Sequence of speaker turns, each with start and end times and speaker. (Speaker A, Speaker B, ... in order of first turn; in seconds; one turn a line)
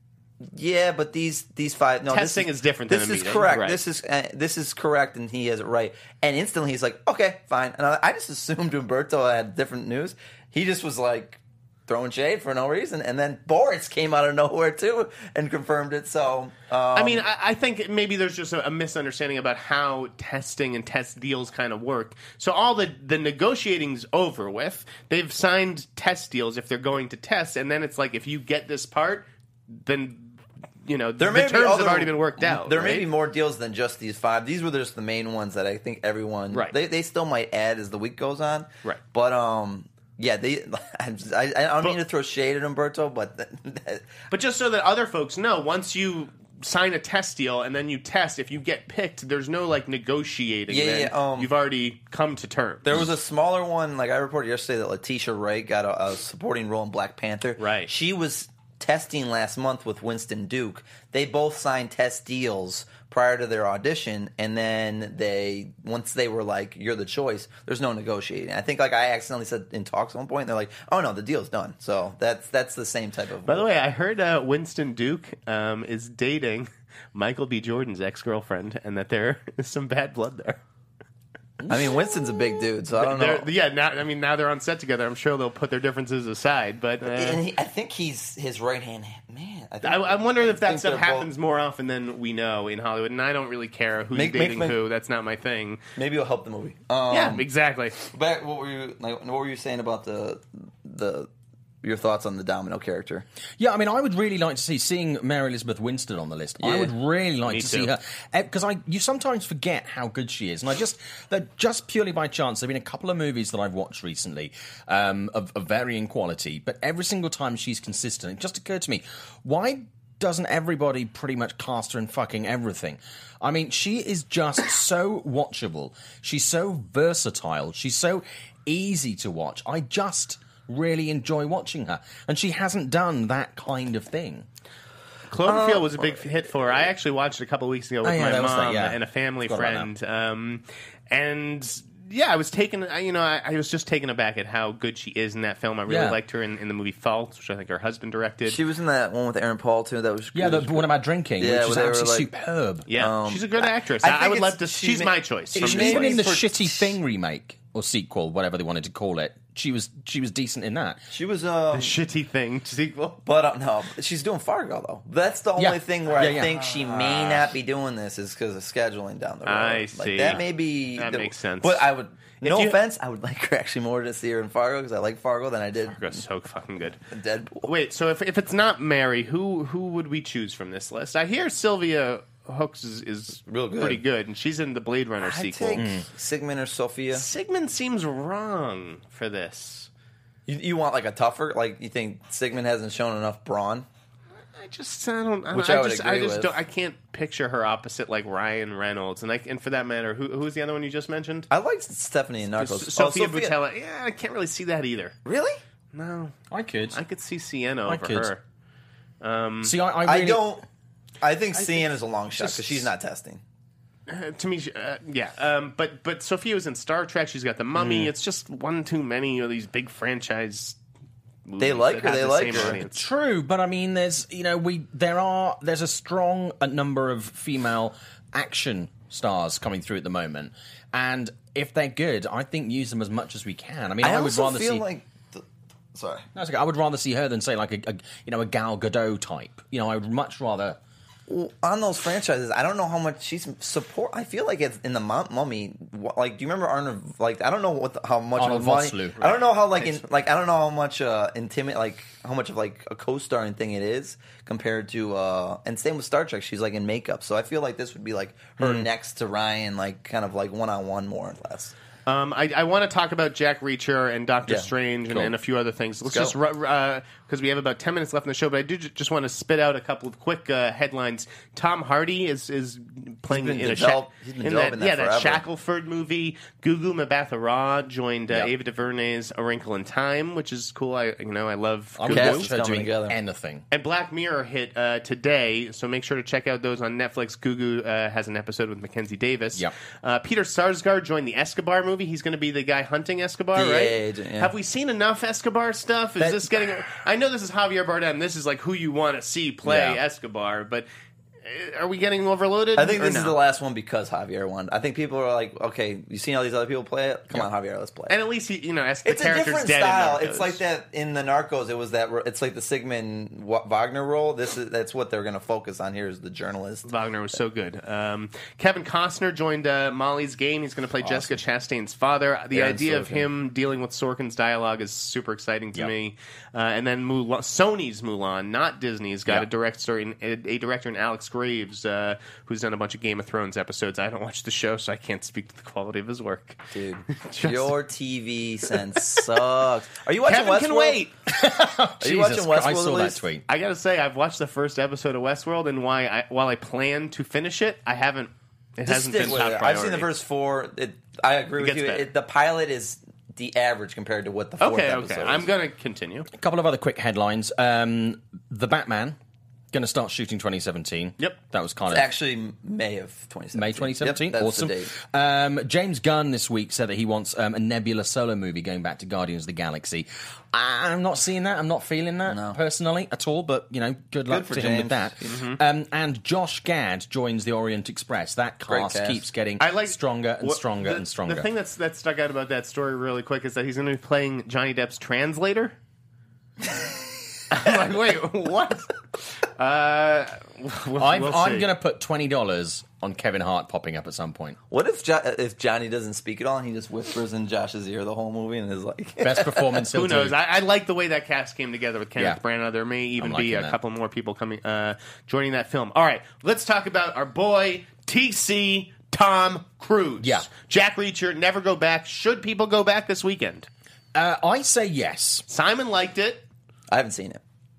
Speaker A: 0.4-17.2
Speaker B: 2.1-3.8
Speaker B: 16.9-33.1
Speaker A: 31.2-44.1
Speaker B: 44.3-53.0
Speaker A: 50.7-51.5
Speaker A: 52.8-73.6
Speaker B: 57.6-57.9
Speaker B: 73.4-80.6
Speaker A: 81.7-83.5
Speaker B: 83.0-87.4
Speaker A: 87.0-91.3
Speaker B: 89.8-95.8
Speaker A: 94.1-94.8
Speaker A: 96.0-97.5
Speaker B: 97.1-98.0
Speaker A: 98.0-101.3
Speaker A: 101.8-103.2
Speaker C: 103.6-134.4
Speaker A: 106.6-106.9
Speaker B: 107.5-107.9
Speaker B: 135.3-148.6
Speaker A: 135.5-135.8
Speaker C: 138.0-139.9
Speaker C: 145.9-146.2
Speaker A: 148.5-150.9
Speaker C: 150.3-152.9
Speaker A: 151.4-152.3
Speaker B: 152.9-156.2
Speaker A: 152.9-156.9
Speaker C: 155.6-161.0
Speaker A: 161.1-161.9
Speaker B: 161.7-163.2
Speaker A: 163.2-176.2
Speaker C: 165.6-167.4
Speaker B: 169.4-170.4
Speaker B: 170.9-171.9
Speaker B: 172.4-172.8
Speaker B: 175.9-177.0
Speaker A: 177.1-177.7
Speaker B: 177.6-185.8
Speaker A: 183.5-184.0
Speaker A: 185.2-187.2
Speaker C: 185.8-186.1
Speaker B: 187.1-189.9
Speaker A: 190.5-193.9
Speaker B: 194.5-201.5
Speaker A: 195.5-196.5
Speaker A: 201.5-203.5
Speaker B: 202.6-205.2
Speaker A: 205.2-205.6
Speaker B: 205.9-206.3
Speaker C: 206.5-207.0
Speaker B: 206.9-208.4
Speaker C: 207.9-208.3
Speaker B: 209.2-209.7
Speaker C: 209.6-210.4
Speaker A: 210.0-210.6
Speaker A: 211.2-213.4
Speaker C: 212.4-212.7
Speaker B: 214.1-220.8
Speaker C: 217.8-218.1
Speaker B: 221.4-223.1
Speaker A: 221.6-222.8
Speaker C: 222.5-234.8
Speaker A: 234.0-236.2
Speaker C: 236.3-240.8
Speaker A: 241.3-261.7
Speaker C: 248.3-249.3
Speaker B: 262.1-282.5
Speaker A: 266.1-266.4
Speaker A: 273.3-275.4
Speaker C: 282.0-283.6
Speaker A: 282.1-283.2
Speaker B: 283.7-300.9
Speaker A: 293.5-294.5
Speaker A: 296.2-296.5
Speaker C: 299.6-300.0
Speaker B: 301.4-303.4
Speaker A: 302.8-308.1
Speaker B: 308.1-310.6
Speaker A: 309.0-316.9
Speaker B: 316.9-337.7
Speaker A: 322.5-323.3
Speaker A: 336.7-341.0
Speaker B: 340.2-341.1
Speaker C: 341.3-343.4
Speaker A: 342.0-343.2
Speaker B: 343.5-350.1
Speaker A: 348.9-355.5
Speaker B: 351.6-352.1
Speaker B: 354.6-356.3
Speaker C: 356.3-359.2
Speaker C: 359.7-362.1
Speaker A: 361.9-364.9
Speaker C: 363.5-381.5
Speaker A: 372.3-372.6
Speaker A: 374.3-375.2
Speaker B: 375.2-375.6
Speaker A: 378.7-379.2
Speaker B: 379.6-385.8
Speaker B: 387.5-391.7
Speaker C: 391.0-394.6
Speaker A: 394.7-399.9
Speaker C: 399.2-400.4
Speaker B: 399.9-413.7
Speaker C: 403.2-403.8
Speaker C: 410.2-410.5
Speaker C: 414.1-415.4
Speaker B: 415.5-416.4
Speaker A: 416.9-417.4